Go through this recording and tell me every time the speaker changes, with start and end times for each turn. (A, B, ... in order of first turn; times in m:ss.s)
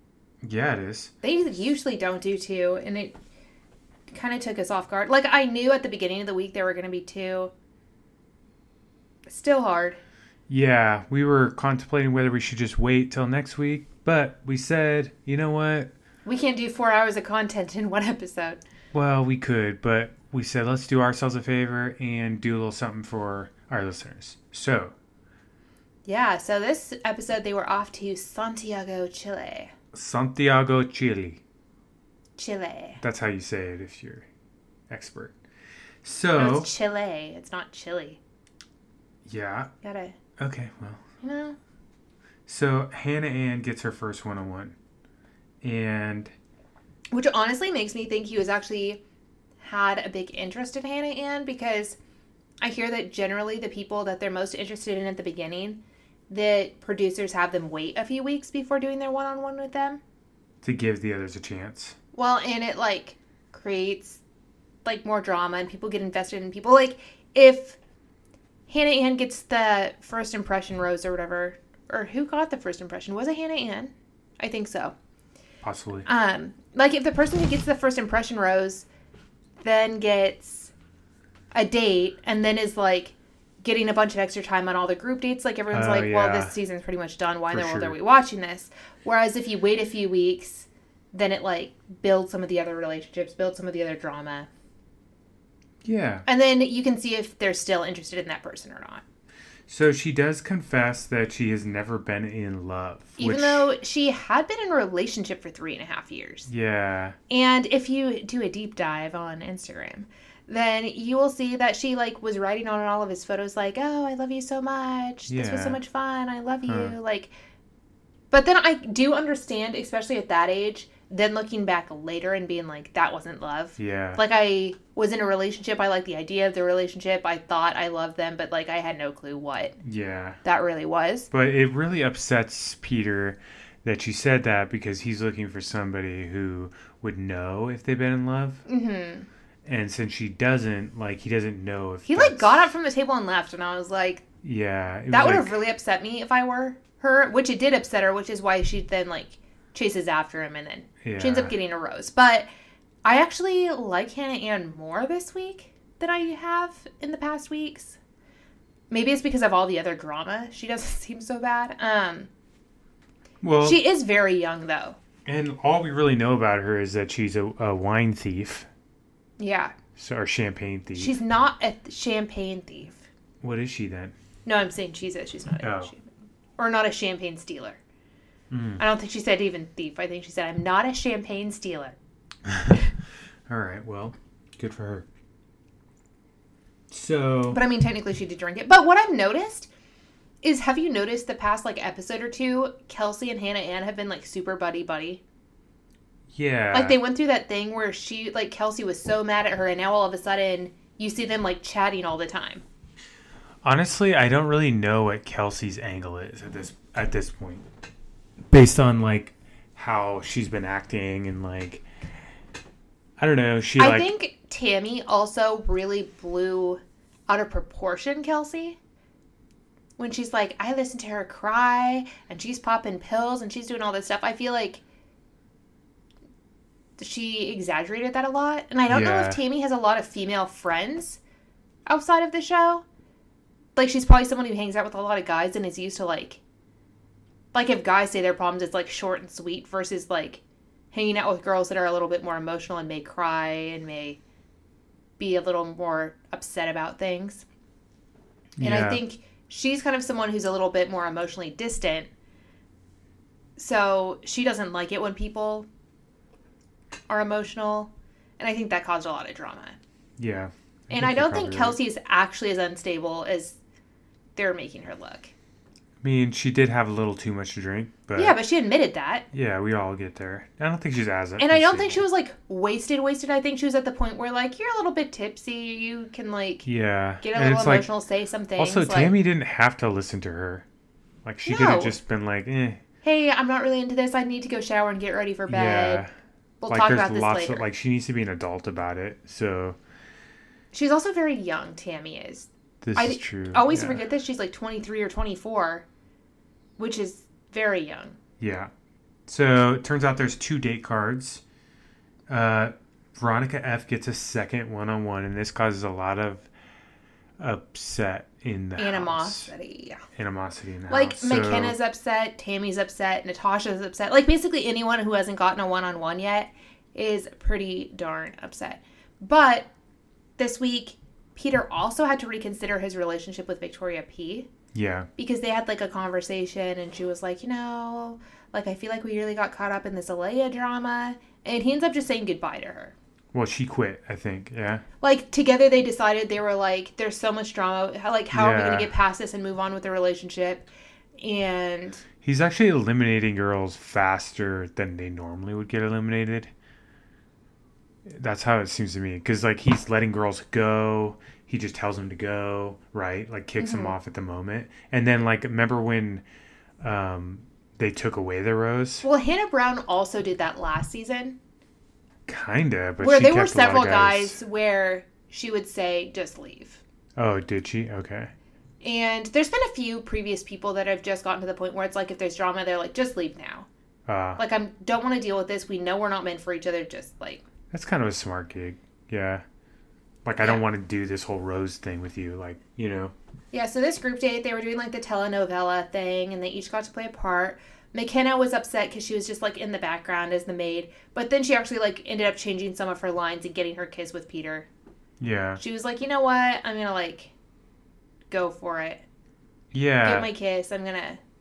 0:00.4-0:01.1 A
0:01.2-0:03.1 B
0:04.1-0:07.5 B
0:09.3-0:10.0 B
0:10.5-0:15.9 A
0:16.2-0:18.6 B
0:18.9-0:24.9 A
0:26.0-0:29.7 B
0:29.9-0:31.4 A
0:32.4-0:33.0 B
0:33.0-0:34.2 A
0:34.9-0:35.4 A
0:36.0-0:36.7 A
0:36.4-0:38.2 B
0:39.2-0:39.7 A
0:39.8-0:40.2 B
0:40.4-0:41.0 A
0:41.2-0:41.6 B
0:42.5-0:44.7 A
0:45.6-0:46.3 A
0:47.1-0:49.0 B
0:49.6-0:52.0 B
0:52.6-1:00.0 B
1:00.6-1:01.9 A
1:02.1-1:04.2 B
1:04.8-1:07.8 B
1:08.7-1:14.9 B
1:15.6-1:16.1 A
1:16.0-1:18.8 B
1:19.6-1:20.7 B
1:21.5-1:34.5 B
1:25.7-1:26.5 A
1:27.5-1:28.0 A
1:35.8-1:36.2 A
1:36.2-1:39.0 B
1:39.7-1:43.7 A
1:43.2-1:46.5 B
1:46.5-1:47.2 A
1:47.3-1:57.3 B
1:55.3-1:55.8 A
1:56.7-1:57.0 A
1:58.3-2:09.8 B
2:03.8-2:04.2 A
2:09.8-2:10.4 A
2:10.4-2:11.3 B
2:11.3-2:18.6 A
2:18.6-2:19.3 B
2:19.6-2:22.7 A
2:22.0-2:24.2 B
2:24.4-2:25.6 A
2:25.1-2:32.4 B
2:31.0-2:31.5 A
2:33.0-2:38.0 B
2:38.9-2:42.3 B
2:43.4-2:43.8 A
2:43.6-2:45.0 B
2:45.2-2:48.7 A
2:49.4-2:49.7 B
2:50.0-2:51.2 A
2:50.9-2:53.0 B
2:53.4-2:54.1 A
2:54.4-2:56.0 B
2:55.6-2:55.9 A
2:56.6-2:57.8 B
2:58.5-2:58.8 A
2:58.8-3:02.0 B
3:02.4-3:02.8 A
3:03.5-3:05.0 A
3:06.9-3:07.6 A
3:07.5-3:09.7 B
3:10.4-3:15.2 B
3:16.3-3:17.0 A
3:16.7-3:22.6 B
3:23.6-3:27.6 A
3:28.5-3:31.8 A
3:33.2-3:34.1 A
3:33.8-3:38.8 B
3:40.0-3:44.8 B
3:47.0-3:51.2 B
3:48.9-3:49.4 A
3:51.9-3:52.8 B
3:53.8-3:56.4 B
3:57.5-4:00.4 B
4:00.9-4:04.2 B
4:05.2-4:07.4 B
4:08.6-4:09.0 A
4:08.6-4:12.1 B
4:13.6-4:15.6 B
4:17.1-4:19.8 B
4:20.2-4:21.8 A
4:20.9-4:23.6 B
4:24.4-4:25.3 B
4:26.0-4:28.4 A
4:28.2-4:29.2 B
4:29.3-4:32.0 A
4:31.4-4:36.7 B
4:36.6-4:37.9 A
4:37.2-4:39.2 B
4:38.6-4:40.6 A
4:41.2-4:42.8 A
4:41.4-4:42.0 B
4:43.0-4:46.0 B
4:45.5-4:46.1 A
4:46.6-4:47.6 B
4:46.7-4:49.8 A
4:50.7-4:55.8 B
4:52.8-4:54.0 A
4:56.8-4:58.2 B
4:58.4-4:58.7 A
4:59.3-5:01.4 A
5:02.3-5:06.5 A
5:07.4-5:09.5 A
5:08.8-5:10.0 B
5:10.1-5:11.8 A
5:10.9-5:19.7 B
5:20.4-5:24.5 B
5:24.7-5:25.1 A
5:25.2-5:32.9 B
5:33.3-5:34.8 A
5:35.0-5:40.7 B
5:38.3-5:38.9 A
5:41.2-5:42.0 B
5:42.2-5:46.5 A
5:48.1-5:56.2 A
5:53.6-5:53.9 B
5:56.8-5:59.0 A
5:59.0-6:01.4 B
6:02.3-6:04.4 A
6:03.0-6:06.8 B
6:07.2-6:08.3 A
6:08.8-6:13.7 B
6:14.1-6:14.4 A
6:14.4-6:17.4 B
6:17.7-6:19.4 A
6:20.2-6:23.1 A
6:20.4-6:20.6 B
6:23.5-6:34.7 B
6:35.2-6:35.6 A
6:35.6-6:37.3 B
6:38.3-6:39.0 B
6:39.7-6:40.3 A
6:40.0-6:41.2 B